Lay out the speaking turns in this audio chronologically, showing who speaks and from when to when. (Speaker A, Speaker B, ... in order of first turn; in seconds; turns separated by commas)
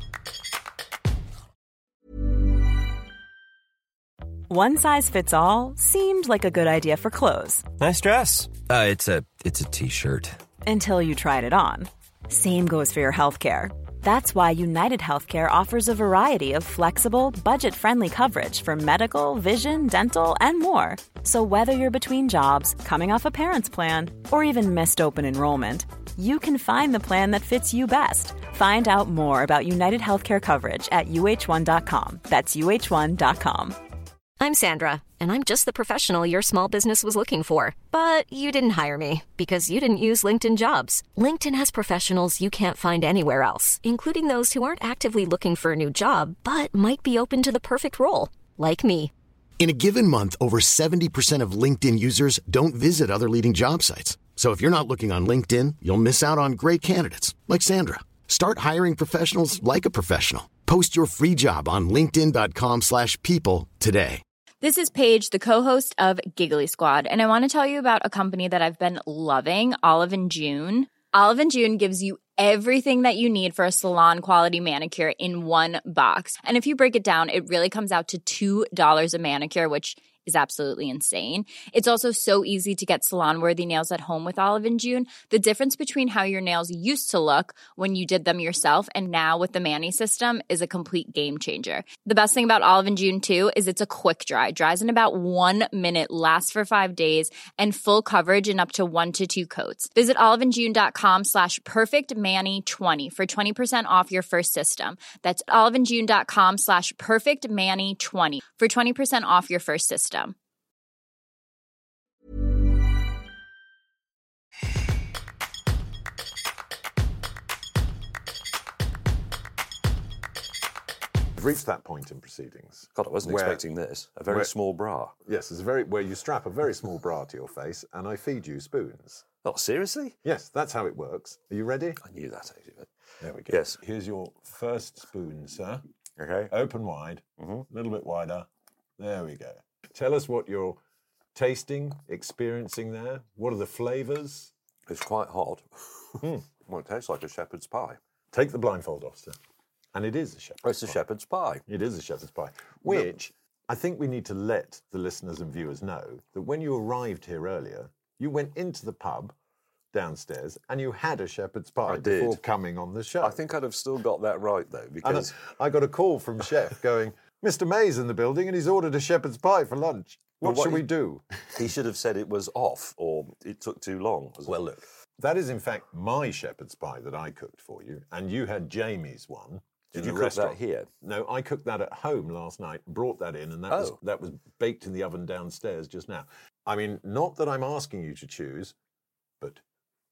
Speaker A: 4.5-7.7, Speaker B: 7.8-10.4, Speaker A: 10.6-33.8, Speaker C: 34.4-49.1, Speaker D: 49.6-64.2, Speaker E: 64.6-110.3, Speaker F: 121.3-123.6, Speaker G: 122.9-125.1, Speaker F: 125.2-129.2, Speaker G: 129.4-130.2, Speaker F: 130.2-132.0, Speaker G: 132.0-132.9, Speaker F: 133.2-135.8, Speaker G: 133.5-133.8, Speaker G: 136.2-136.5, Speaker F: 136.5-140.8, Speaker G: 137.4-137.7, Speaker F: 141.3-144.5, Speaker G: 144.9-148.0, Speaker F: 148.3-149.4, Speaker F: 149.9-151.0, Speaker G: 150.6-151.6, Speaker F: 151.7-159.3, Speaker F: 159.9-163.4, Speaker G: 161.9-162.4, Speaker G: 163.2-165.4, Speaker F: 165.0-171.2, Speaker G: 170.4-170.9, Speaker G: 171.5-174.6, Speaker F: 174.4-188.8, Speaker G: 179.9-180.9, Speaker G: 183.7-184.0